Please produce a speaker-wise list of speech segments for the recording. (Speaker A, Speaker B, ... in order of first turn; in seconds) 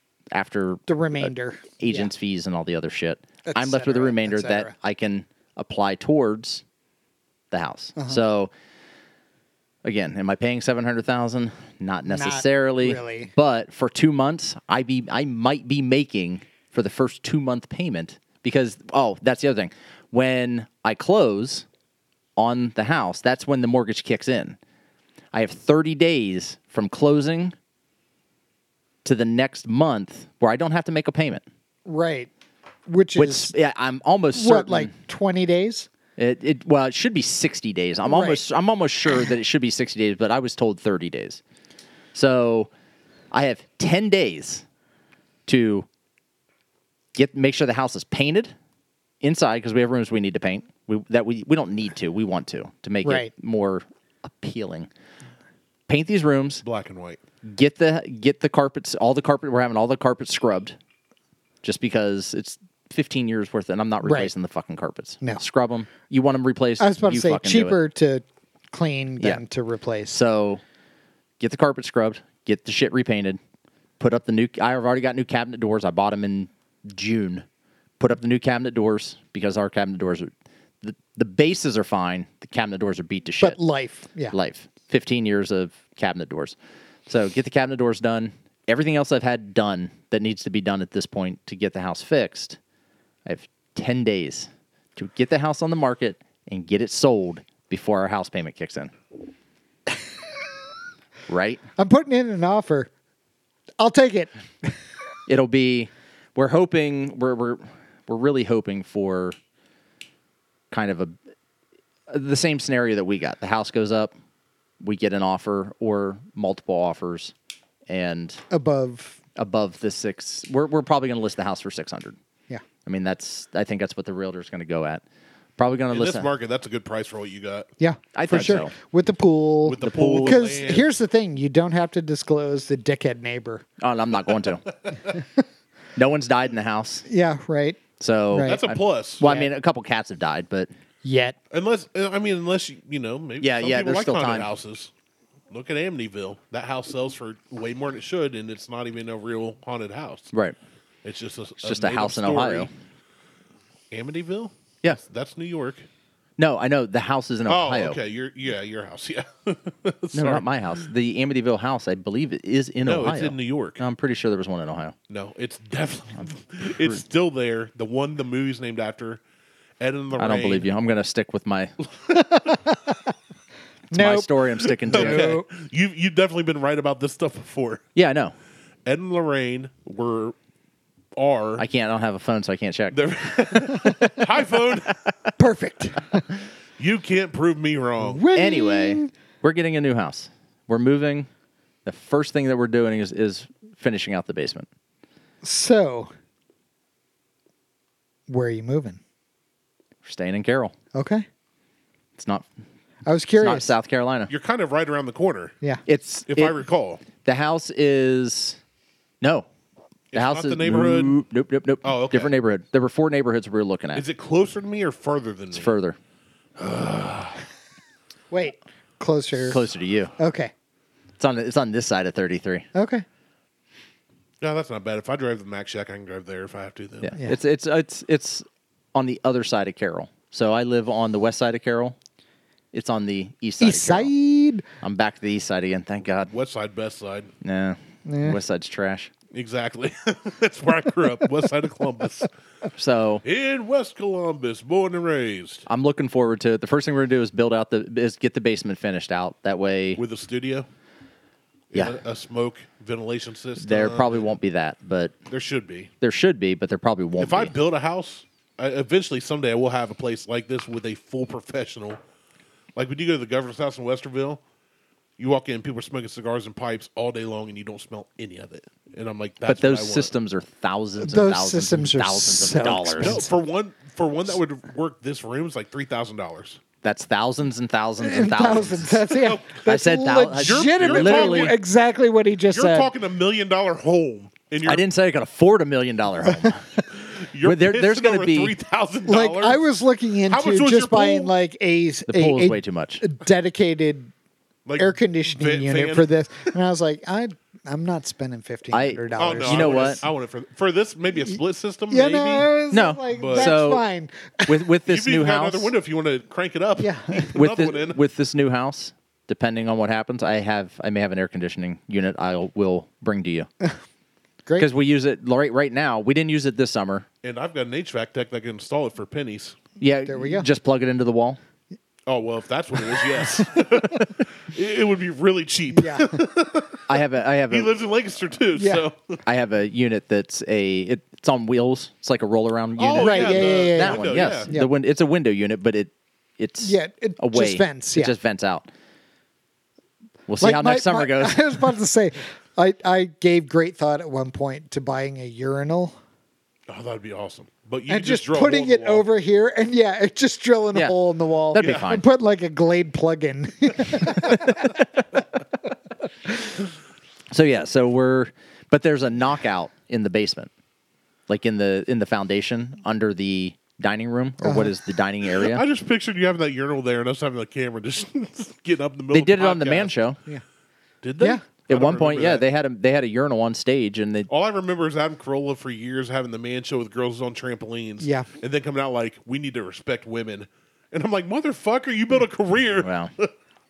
Speaker A: 0.3-6.6, 7.5-8.5, 9.8-21.6, 22.4-24.6, 25.3-27.5, 29.0-31.4, 33.1-34.9, 36.2-41.4, 42.1-42.7, 43.3-44.6, 45.5-45.9, 47.1-48.5, 49.2-54.9, 55.9-56.6, 57.4-60.8, 61.6-67.8, 70.1-70.6, 71.4-73.4, 74.0-77.4, 78.0-80.3, 80.8-83.6, 84.3-86.5, 87.1-92.6, 93.2-98.9, 101.3-101.6, 105.3-109.3, 110.7-111.1, 112.1-114.1, 114.8-117.3, 117.9-118.4, 119.3-122.2, 122.8-125.0, 125.6-126.3, 128.1-128.7, 129.8-130.5, 133.8-134.7, 135.9-137.0, 138.0-140.7, 143.4-144.5, 151.6-152.7, 156.4-158.0, 160.1-164.9, 170.2-171.7, 173.9-175.4, 177.9-178.3, 181.6-183.0, 183.7-184.1, 188.3-191.3, 191.8-194.7, 200.0-200.7, 202.2-202.5, 203.4-204.3, 205.8-206.5, 207.2-208.6, 209.2-209.5, 210.1-214.0, 215.5-216.0, 219.4-220.1, 221.2-222.7, 227.0-232.0, 232.7-234.1, 234.8-236.3, 237.4-239.1, 242.7-243.2, 245.7-250.0, 253.6-255.1, 256.0-257.5, 269.4-273.2, 276.8-279.0, 279.6-281.6, 284.6-286.6, 287.4-288.6, 292.1-293.0, 298.7-300.0, 302.7-303.8, 304.4-305.7, 307.3-313.5, 314.6-317.1, 319.8-321.4, 326.9-327.7, 329.2-338.7, 340.3-341.6, 351.5-352.0, 354.1-354.7, 357.3-360.5, 361.3-365.6, 369.1-370.2, 371.7-374.3, 382.8-383.1
Speaker B: 0.9-2.1, 3.4-4.7, 8.0-8.2, 12.1-13.3, 31.9-32.3, 32.9-33.5, 34.3-35.9, 38.0-38.4, 53.0-53.3, 64.0-64.3, 66.8-70.2, 83.4-84.3, 101.8-102.9, 103.8-104.8, 118.5-119.2, 127.8-133.6, 137.1-138.6, 139.2-139.5, 141.0-141.4, 172.3-172.9, 173.9-174.3, 174.8-175.5, 185.4-186.2, 188.0-189.1, 195.4-196.1, 198.3-199.0, 200.9-201.2, 203.1-203.7, 218.3-219.7, 220.2-220.5, 222.7-223.0, 233.6-234.6, 238.1-238.4, 271.0-273.3, 278.0-282.9, 289.1-294.1, 294.8-300.0, 301.9-304.6, 306.8-307.4, 320.1-320.5, 325.7-326.2, 328.6-328.9, 332.9-334.7, 336.6-338.1, 340.4-345.9, 347.9-354.8, 364.4-364.7, 378.0-378.3
Speaker C: 56.6-57.2, 125.9-127.7, 129.6-130.9, 138.4-139.3, 141.5-144.9, 145.5-150.3, 151.0-152.7, 153.9-155.8, 157.5-160.5, 162.8-163.8, 165.1-169.2, 169.8-170.7, 174.6-177.8, 178.8-180.3, 181.2-181.6, 182.9-185.0, 186.8-188.2, 204.3-205.5, 206.3-207.0, 210.1-211.2, 211.8-212.3, 213.9-215.7, 216.6-217.4, 224.4-227.1, 236.3-237.3, 239.3-242.3, 243.2-245.7, 250.0-250.7, 251.7-254.3, 255.3-255.9, 257.2-262.0, 262.8-264.4, 265.2-270.1, 273.0-276.6, 279.1-279.6, 280.3-281.6, 282.5-284.9, 286.9-289.6, 290.3-291.3, 294.6-296.5, 299.2-302.5, 303.1-303.6, 304.9-308.0, 317.2-319.6, 322.1-329.2, 332.8-334.5, 346.7-349.1, 351.6-351.9, 365.3-369.9, 371.0-372.4, 374.3-383.3